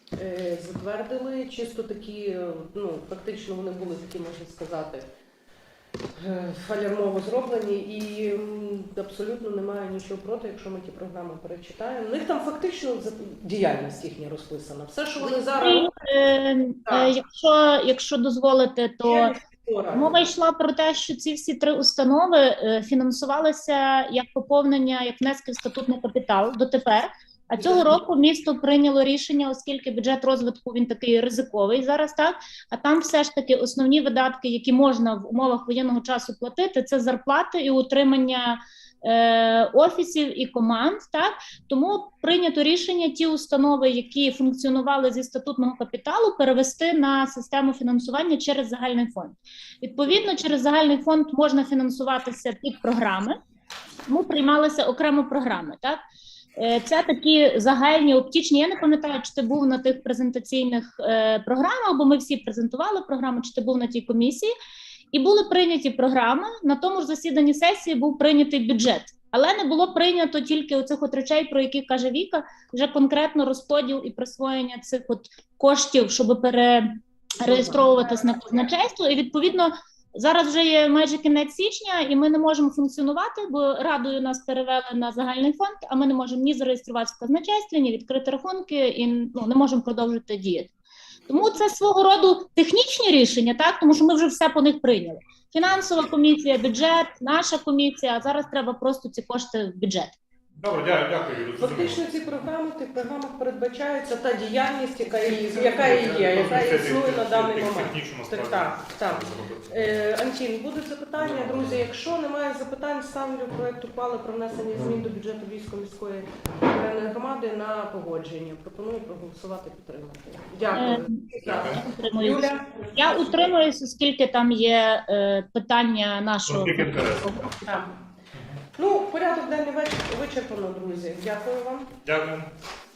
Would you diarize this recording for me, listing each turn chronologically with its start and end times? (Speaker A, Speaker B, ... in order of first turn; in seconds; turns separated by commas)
Speaker A: 0.1-5.0, Speaker A: 6.1-15.9, Speaker B: 15.2-19.3, Speaker A: 16.9-17.1, Speaker A: 19.0-20.2, Speaker B: 19.9-53.4, Speaker A: 27.6-28.0, Speaker B: 54.1-56.0, Speaker B: 56.6-64.5, Speaker B: 65.1-90.7, Speaker A: 77.4-78.6, Speaker B: 91.3-100.2, Speaker C: 100.5-102.2, Speaker A: 101.5-123.5, Speaker C: 105.6-110.1, Speaker C: 111.2-112.1, Speaker B: 120.7-127.5, Speaker C: 121.5-121.8, Speaker C: 126.5-127.5, Speaker A: 127.6-128.0, Speaker C: 128.3-128.6, Speaker A: 128.8-131.9, Speaker C: 132.0-132.5